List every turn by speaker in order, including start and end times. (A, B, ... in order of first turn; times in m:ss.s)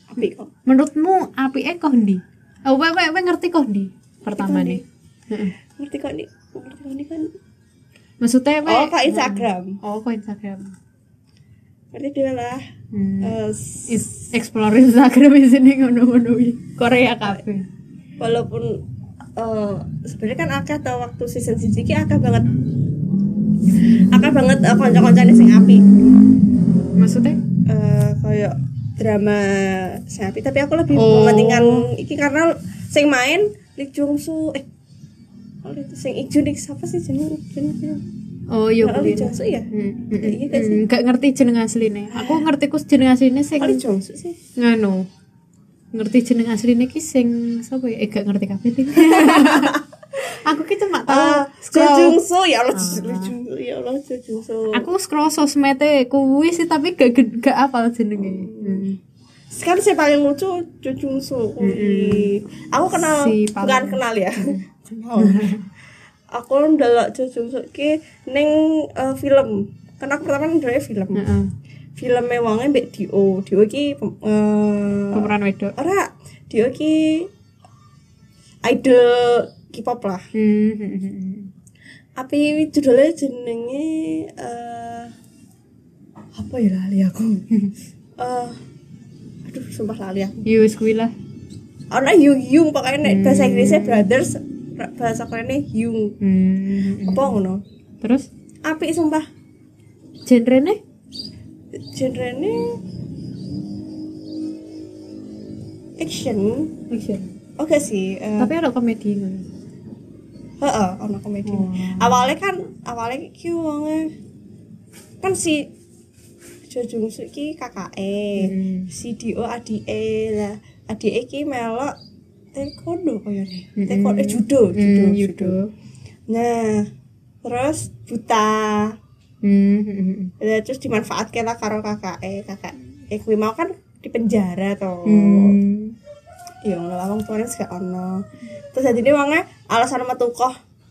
0:00.1-0:00.5 A
0:00.7-0:05.5 B
0:04.3-0:04.8 A
0:05.8-0:07.3 A
0:08.2-0:10.8 B
0:08.6-0:09.8 A
0:11.9-0:12.6 A
0:12.9-0:17.7 B
0:13.2-0:14.0 A
0:18.2-0:18.8 A
0:19.4-0:22.5 A
0:23.8-0:25.8 A
0:27.0-0:27.4 B
0:27.7-0:34.7 A
0:30.9-0:31.9 B
0:35.6-0:38.0 A
0:38.5-0:43.8 B
0:38.8-0:40.8 A
0:42.1-0:42.5 A
0:43.6-0:44.4 A
0:44.6-0:45.1 B
0:45.9-0:52.2 B
0:49.0-0:49.8 A
0:51.1-0:54.9 A
0:52.7-0:53.4 B
0:54.7-0:59.0 B
0:58.2-0:58.9 A
0:59.5-1:05.6 A
1:01.6-1:02.3 B
1:02.9-1:04.6 B
1:05.2-1:05.6 B
1:06.3-1:11.2 A
1:11.2-1:11.5 B
1:12.0-1:17.3 A
1:15.1-1:15.8 B
1:18.6-1:20.2 A
1:20.3-1:21.5 B
1:22.2-1:25.1 A
1:26.4-1:27.4 A
1:28.2-1:28.6 A
1:29.4-1:30.4 A
1:30.4-1:31.1 B
1:31.9-1:36.2 A
1:33.0-1:34.1 B
1:36.2-1:37.4 B
1:37.1-1:37.6 A
1:38.6-1:39.3 A
1:40.3-1:40.8 B
1:41.8-1:42.8 A
1:46.0-1:46.7 A
1:46.9-1:47.3 B
1:47.6-1:48.5 A
1:48.4-1:49.5 B
1:50.6-1:54.1 A
1:51.4-1:52.3 B
1:55.2-1:55.7 A
1:56.7-2:02.0 A
1:58.4-1:58.9 B
2:02.5-2:05.6 A
2:03.8-2:05.7 B
2:06.3-2:06.9 A
2:07.4-2:09.0 A
2:09.4-2:10.3 B
2:10.4-2:15.6 A
2:15.0-2:16.0 B
2:16.6-2:20.6 A